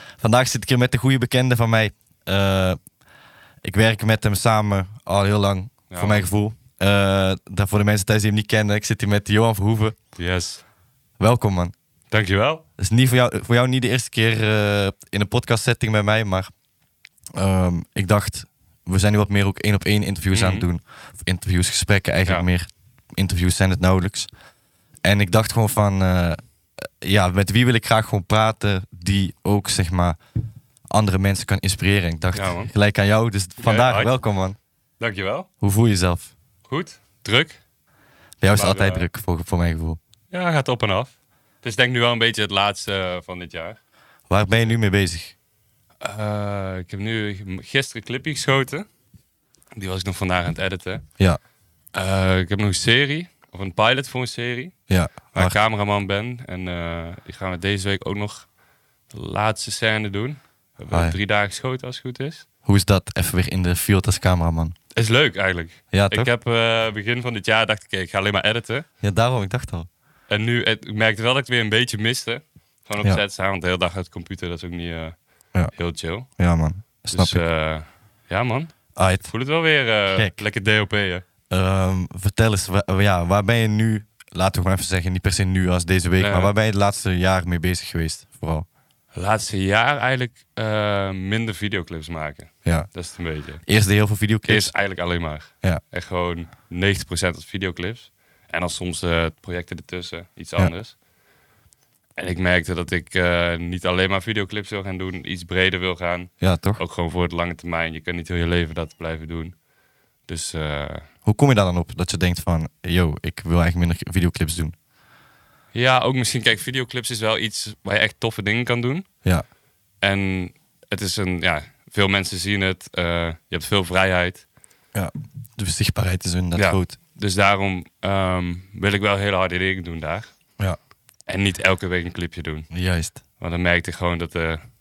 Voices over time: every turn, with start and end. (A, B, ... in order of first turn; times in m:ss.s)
0:00.2-0:02.8 A
0:03.6-0:10.0 A
0:05.9-0:06.3 B
0:10.2-0:10.6 B
0:11.2-0:11.7 A
0:12.1-0:12.6 B
0:12.8-0:16.5 A
0:17.4-0:24.3 A
0:20.3-0:20.7 B
0:25.0-0:30.2 A
0:30.9-0:34.6 A
0:32.3-0:32.7 B
0:33.6-0:34.1 B
0:35.0-0:35.5 B
0:35.6-0:36.3 A
0:36.7-0:37.6 B
0:38.4-0:40.0 A
0:38.5-0:39.1 B
0:40.3-0:43.8 B
0:44.3-0:45.3 A
0:44.5-0:44.7 B
0:46.0-0:48.9 B
0:49.7-0:51.0 B
0:51.9-0:54.8 B
0:54.9-0:55.6 A
0:55.3-0:58.5 B
0:59.1-1:02.4 B
1:00.9-1:01.2 A
1:02.6-1:04.8 A
1:04.9-1:08.8 B
1:05.9-1:06.3 A
1:09.0-1:09.9 A
1:10.3-1:15.2 B
1:15.7-1:16.3 B
1:16.3-1:17.4 A
1:17.1-1:21.2 B
1:19.0-1:19.3 A
1:21.5-1:28.7 A
1:26.2-1:26.5 B
1:29.1-1:33.6 B
1:33.6-1:34.7 A
1:34.4-1:41.0 B
1:42.2-1:49.5 B
1:46.4-1:46.8 A
1:50.3-1:51.1 B
1:51.2-1:54.8 A
1:55.7-1:59.1 B
2:00.0-2:04.4 B
2:04.9-2:07.0 A
2:06.6-2:10.3 B
2:11.3-2:12.7 B
2:12.7-2:13.2 A
2:13.4-2:14.6 B